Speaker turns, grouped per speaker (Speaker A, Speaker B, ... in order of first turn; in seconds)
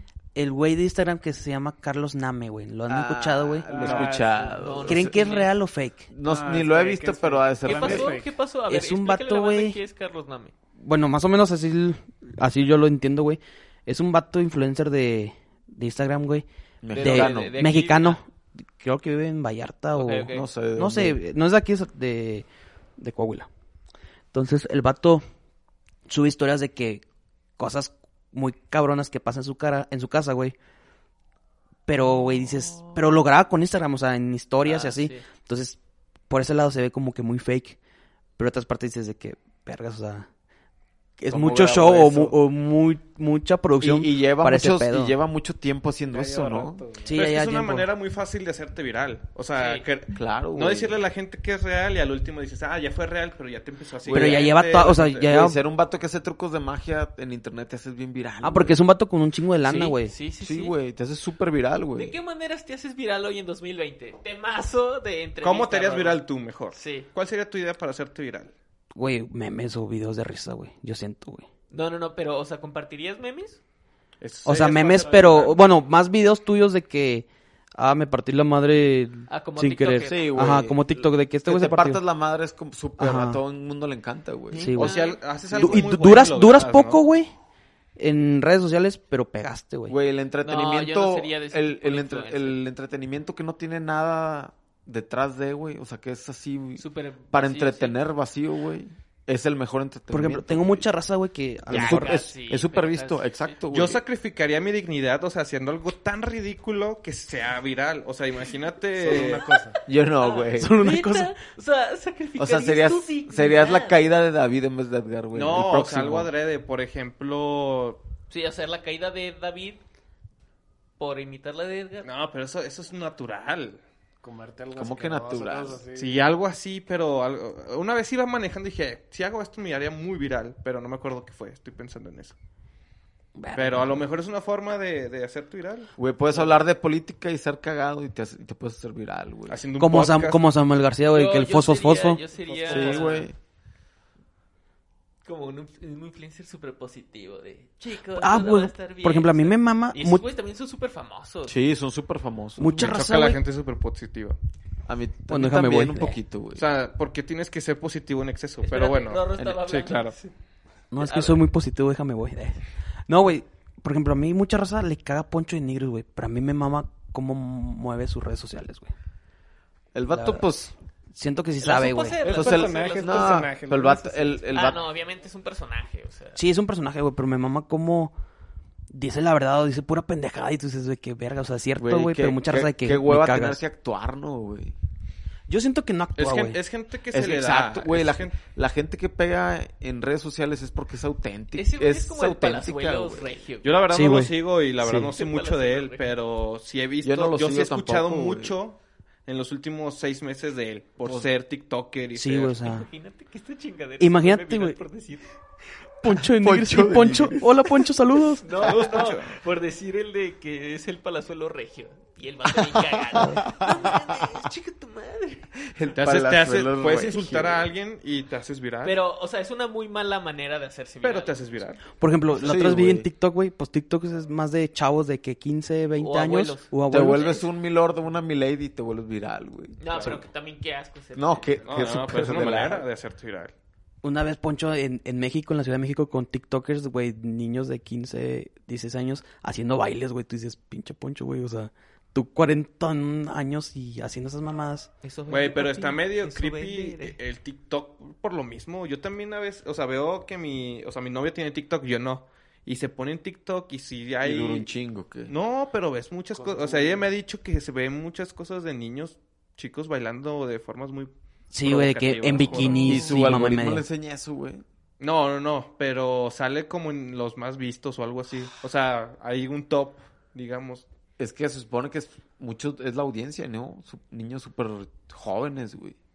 Speaker A: 0.3-4.1, 4.9-6.1, 8.7-9.8, 10.8-16.5, 17.0-22.5, 23.0-23.5, 24.3-25.2, 26.1-27.0, 27.6-30.6, 31.9-35.8, 36.3-37.8, 38.4-40.3, 41.2-45.2, 47.0-47.9, 54.1-55.6, 58.4-60.1, 68.9-71.5, 74.5-82.0, 83.0-83.4, 84.6-85.0, 85.5-87.3, 88.0-90.0, 100.1-102.3, 110.6-111.4, 133.4-134.1, 139.8-142.2, 148.2-150.2, 152.6-153.4, 155.3-156.2, 160.9-168.9, 170.1-170.5, 171.1-172.2, 176.4-178.1, 178.9-183.6, 185.5-186.6, 193.9-195.1, 202.2-202.9, 204.0-204.8, 206.0-208.7, 213.1-213.4, 222.0-227.4, 234.0-244.9, 261.5-263.9
Speaker B: 2.9-5.2, 6.1-8.1, 16.8-17.5, 20.3-21.2, 41.3-42.4, 43.8-46.8, 50.1-51.0, 55.3-58.8, 60.4-62.2, 80.1-84.9, 89.9-100.9, 101.7-104.0, 109.9-110.8, 112.4-116.3, 124.8-125.8, 136.0-139.6, 142.7-143.3, 151.5-152.9, 154.9-156.6, 169.9-170.7, 172.3-174.8, 181.8-184.8, 187.1-193.4, 197.0-198.6, 206.3-207.8, 213.1-214.2, 215.8-217.7, 222.3-223.1, 226.9-230.2, 231.2-232.8, 254.2-255.3, 262.7-264.6, 271.2-276.0
Speaker C: 3.7-4.9, 6.2-8.3, 46.1-47.2, 109.0-109.8, 124.2-126.3, 142.5-143.1, 172.2-174.4, 256.4-257.1
Speaker D: 4.6-5.5, 7.6-10.5, 16.9-18.2, 19.9-20.5, 34.6-35.2, 49.6-49.8, 54.1-54.5, 59.6-60.8, 62.0-66.2, 66.7-67.1, 71.7-73.6, 79.3-80.6, 84.5-85.2, 90.4-92.6, 96.8-98.0, 101.7-103.6, 109.5-114.0, 118.3-119.8, 121.0-122.1, 141.1-143.3, 145.2-151.6, 158.6-160.3, 161.0-161.4, 171.6-173.5, 174.5-176.4, 191.6-193.8, 195.0-196.2, 202.6-205.3, 208.4-215.5, 218.8-221.3, 226.0-227.4, 229.8-231.7, 245.0-247.2
Speaker E: 47.1-55.3, 65.4-68.5, 74.2-75.6, 84.7-87.0, 103.7-109.5, 115.3-118.0, 122.0-123.8, 126.0-132.3, 133.5-135.9, 139.5-140.5, 152.8-154.4, 156.6-160.1, 186.2-188.4, 193.6-202.6, 208.6-209.4, 215.9-218.9, 221.0-221.8, 231.6-233.5, 245.3-254.7, 255.3-263.1, 265.0-270.9